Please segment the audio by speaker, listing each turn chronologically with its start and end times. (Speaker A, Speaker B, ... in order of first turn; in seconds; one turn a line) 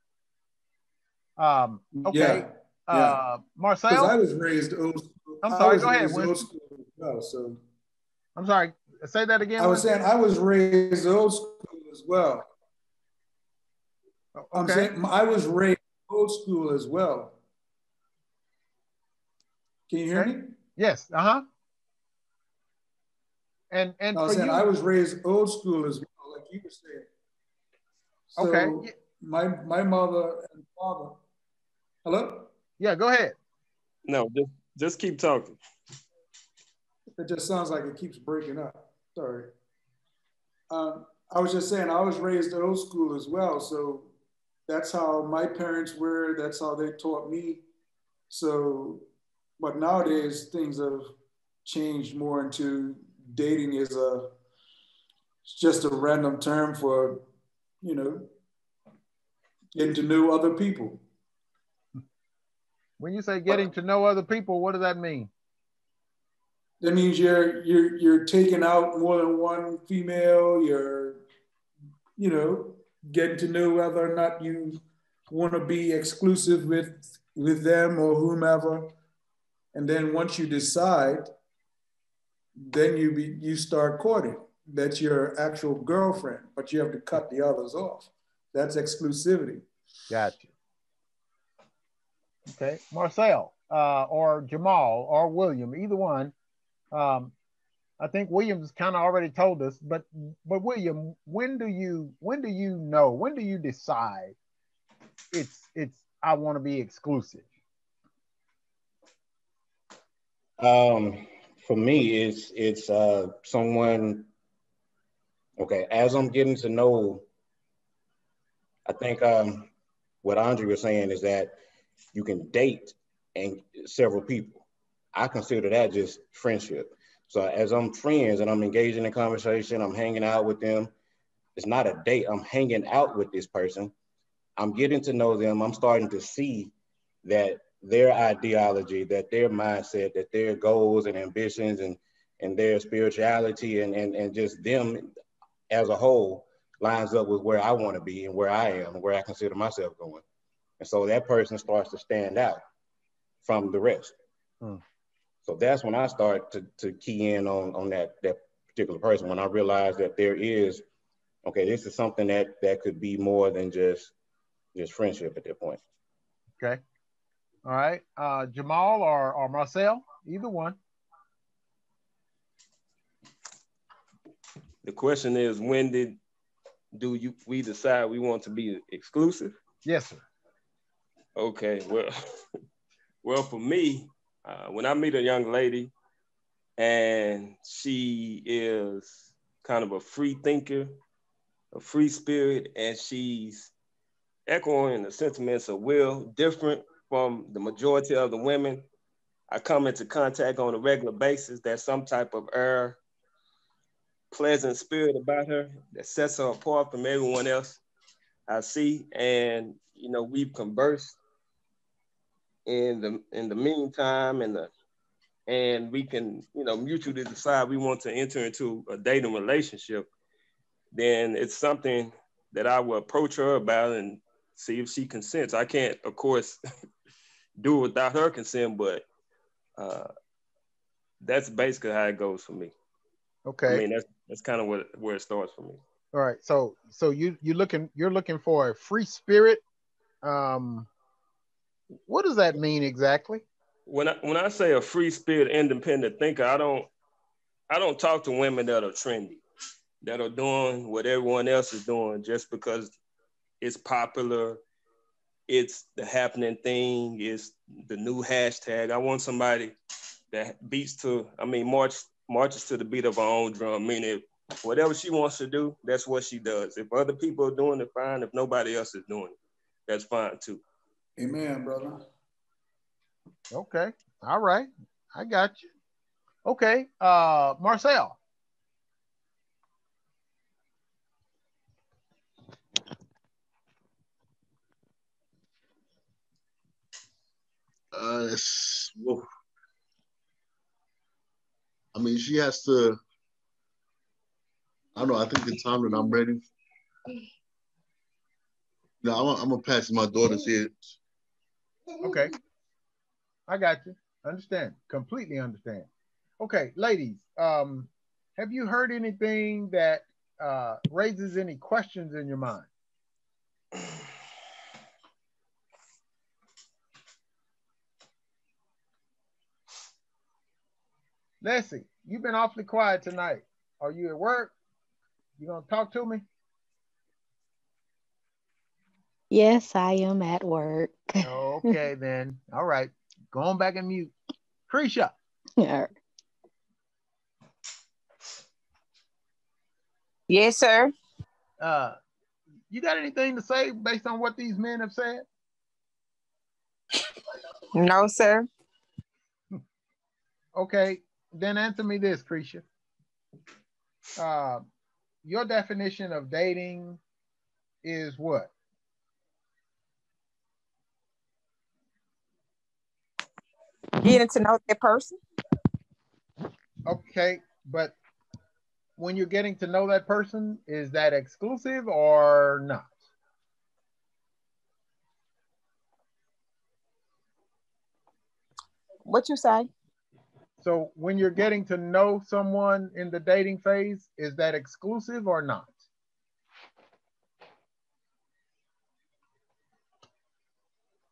Speaker A: 1.4-4.1
Speaker B: 1.9-3.2
Speaker B: 3.9-7.6
Speaker A: 5.4-6.4
Speaker A: 8.4-9.9
Speaker B: 9.6-12.5
Speaker A: 14.4-14.9
Speaker B: 14.5-17.3
Speaker B: 19.9-20.5
Speaker A: 20.1-21.4
Speaker A: 23.7-24.7
Speaker B: 24.1-27.1
Speaker B: 28.3-31.1
Speaker A: 28.4-28.9
Speaker B: 32.0-32.5
Speaker A: 32.8-33.4
Speaker C: 34.1-35.6
Speaker B: 37.2-39.5
Speaker B: 40.7-44.1
Speaker B: 44.7-47.6
Speaker B: 48.3-49.0
Speaker B: 49.6-51.1
Speaker B: 51.6-54.3
Speaker B: 55.5-57.2
Speaker B: 57.8-58.3
Speaker B: 59.8-61.0
Speaker A: 63.0-65.3
Speaker B: 66.8-71.2
Speaker B: 72.2-78.9
Speaker B: 79.7-81.3
Speaker B: 82.6-89.7
Speaker A: 90.1-90.5
Speaker A: 92.5-96.3
Speaker A: 96.9-97.3
Speaker A: 98.0-104.4
Speaker A: 105.3-107.5
Speaker D: 110.6-114.3
Speaker D: 115.6-117.3
Speaker D: 118.9-119.7
Speaker D: 120.2-121.6
Speaker D: 122.1-130.9
Speaker D: 131.6-133.9
Speaker D: 134.6-136.7
Speaker D: 137.2-145.1
Speaker D: 145.7-150.2
Speaker D: 150.8-152.6
Speaker D: 153.4-154.2
Speaker D: 155.4-160.8
Speaker D: 161.4-164.1
Speaker D: 164.8-165.8
Speaker A: 167.7-170.8
Speaker C: 174.8-176.2
Speaker C: 176.9-179.5
Speaker A: 179.8-180.2
Speaker C: 181.4-182.1
Speaker C: 183.2-185.9
Speaker C: 186.8-191.0
Speaker C: 191.7-193.7
Speaker C: 194.5-198.9
Speaker C: 199.5-203.0
Speaker C: 204.3-207.8
Speaker C: 208.5-211.2
Speaker C: 212.7-214.7
Speaker C: 215.5-220.1
Speaker C: 220.9-226.6
Speaker C: 227.6-229.1
Speaker C: 229.8-230.1
Speaker C: 231.2-232.7
Speaker A: 233.5-233.8
Speaker C: 233.7-235.8
Speaker A: 236.1-239.6
Speaker A: 240.2-240.9
Speaker A: 242.1-243.4
Speaker C: 243.9-246.9
Speaker C: 247.7-249.4
Speaker C: 250.0-252.9
Speaker C: 253.6-254.6
Speaker C: 255.5-259.8
Speaker C: 260.3-269.4
Speaker C: 269.9-270.6
Speaker B: 271.2-272.0
Speaker A: 273.5-275.7
Speaker A: 276.4-278.2
Speaker E: 287.9-289.2
Speaker E: 291.9-293.0
Speaker E: 294.9-296.5
Speaker E: 299.0-300.9
Speaker A: 302.0-302.3
Speaker A: 303.5-305.9
Speaker A: 306.4-312.7
Speaker A: 321.4-324.5
Speaker A: 325.4-326.2
Speaker F: 329.3-331.8
Speaker A: 331.2-334.1
Speaker A: 334.7-335.1
Speaker F: 335.6-335.9
Speaker G: 340.3-340.9
Speaker A: 341.6-342.0
Speaker A: 342.7-345.2
Speaker G: 347.8-348.5
Speaker A: 350.6-352.6
Speaker A: 354.2-354.7
Speaker A: 355.2-357.0
Speaker A: 357.8-358.5
Speaker G: 364.1-365.1
Speaker A: 366.9-367.9
Speaker A: 369.0-372.9
Speaker G: 379.1-379.7
Speaker A: 380.6-385.8